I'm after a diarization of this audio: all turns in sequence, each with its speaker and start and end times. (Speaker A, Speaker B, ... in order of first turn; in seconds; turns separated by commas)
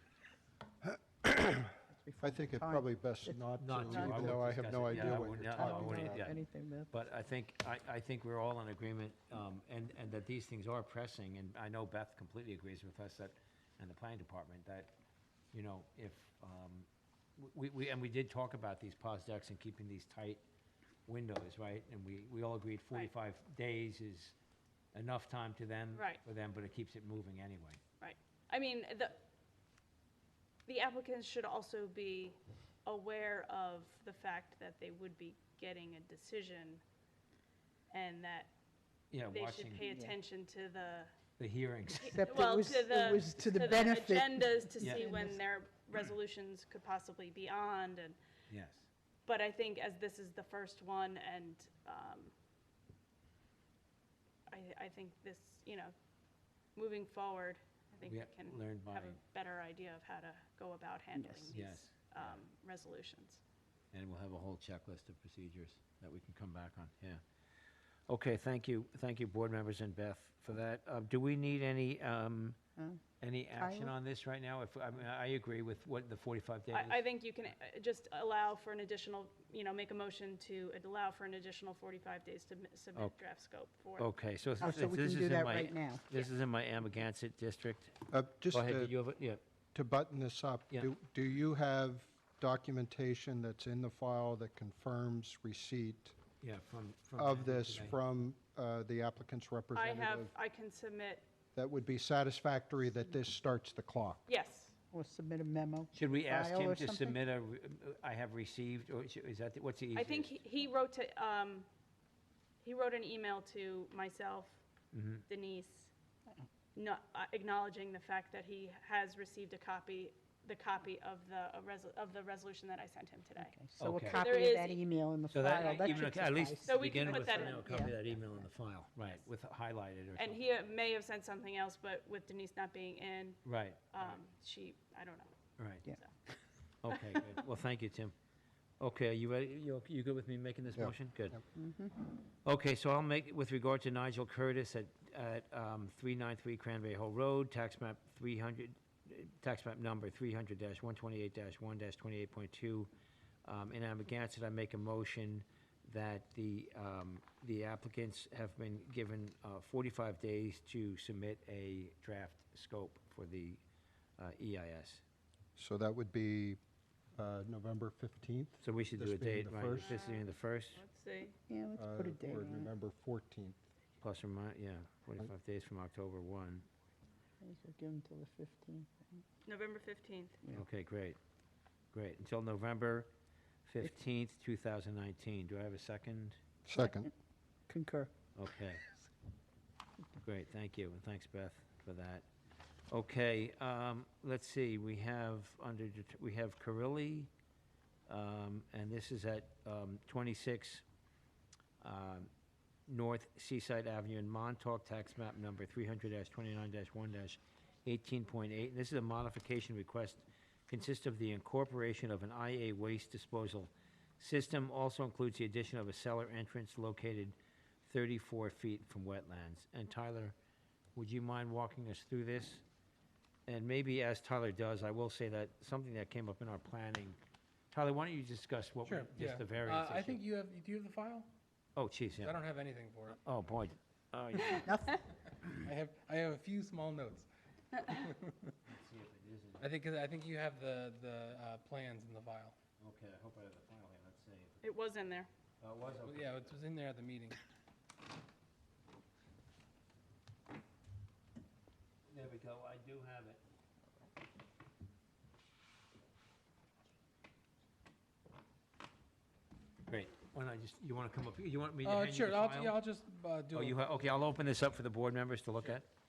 Speaker A: 1.2-6.3, Speaker B: 1.8-7.0, Speaker C: 3.6-14.9, Speaker C: 15.5-20.4, Speaker C: 21.1-24.4, Speaker C: 24.9-27.8, Speaker D: 25.9-26.2, Speaker D: 28.0-29.2, Speaker D: 30.7-36.8, Speaker D: 37.9-38.5, Speaker C: 39.1-39.9, Speaker D: 39.3-41.1, Speaker B: 39.9-40.1, Speaker C: 41.4-42.5, Speaker D: 42.0-48.2, Speaker B: 42.0-45.4, Speaker C: 48.5-48.9, Speaker D: 49.2-52.3, Speaker D: 54.5-55.9, Speaker D: 56.7-63.4, Speaker C: 58.1-59.2, Speaker B: 61.1-61.5, Speaker C: 61.5-62.4, Speaker C: 63.9-67.2, Speaker C: 68.1-72.6, Speaker C: 73.2-77.0, Speaker B: 73.6-73.9, Speaker D: 76.7-84.1, Speaker C: 84.0-89.4, Speaker B: 84.6-86.0, Speaker A: 88.1-88.9, Speaker A: 89.7-96.2, Speaker C: 96.4-98.0, Speaker A: 97.2-100.3, Speaker D: 99.7-101.2, Speaker A: 101.5-104.2, Speaker D: 104.3-104.8, Speaker B: 104.9-107.2, Speaker C: 105.9-110.4, Speaker D: 109.9-111.7, Speaker D: 112.6-114.6, Speaker C: 114.9-115.2, Speaker D: 115.3-115.9, Speaker D: 116.8-123.6, Speaker B: 123.4-127.9, Speaker C: 123.8-124.2, Speaker D: 124.1-128.0, Speaker C: 125.3-130.4, Speaker D: 130.2-133.4, Speaker C: 133.4-134.1, Speaker D: 133.9-135.3, Speaker C: 135.6-135.8, Speaker C: 136.8-138.1, Speaker C: 138.8-141.4, Speaker A: 140.8-141.4, Speaker B: 141.6-141.9, Speaker C: 142.4-152.9, Speaker C: 153.4-163.6, Speaker C: 164.2-165.0, Speaker A: 165.6-166.6, Speaker A: 167.2-170.0, Speaker C: 168.6-170.8, Speaker D: 169.8-171.4, Speaker B: 171.5-172.7, Speaker A: 171.8-173.6, Speaker C: 174.0-176.7, Speaker B: 177.4-179.2, Speaker D: 179.4-180.4, Speaker C: 180.5-181.2, Speaker C: 181.9-183.1, Speaker C: 183.7-186.4, Speaker A: 186.7-187.1, Speaker B: 186.8-187.1, Speaker B: 187.7-188.1, Speaker C: 188.3-188.8, Speaker C: 190.2-192.2, Speaker C: 192.9-197.3, Speaker C: 198.1-200.8, Speaker C: 201.8-202.3, Speaker C: 202.9-220.3, Speaker C: 220.9-222.6, Speaker C: 223.5-227.2, Speaker C: 227.7-230.2, Speaker E: 228.8-231.3, Speaker C: 231.8-232.4, Speaker E: 232.2-233.2, Speaker C: 233.2-234.9, Speaker B: 234.6-234.9, Speaker E: 235.6-238.5, Speaker C: 238.7-239.7, Speaker E: 239.6-242.6, Speaker C: 242.8-244.7, Speaker D: 244.6-245.3, Speaker C: 245.6-246.5, Speaker E: 246.0-247.3, Speaker C: 252.1-253.4, Speaker C: 259.9-262.8, Speaker E: 261.8-263.8, Speaker C: 263.5-265.9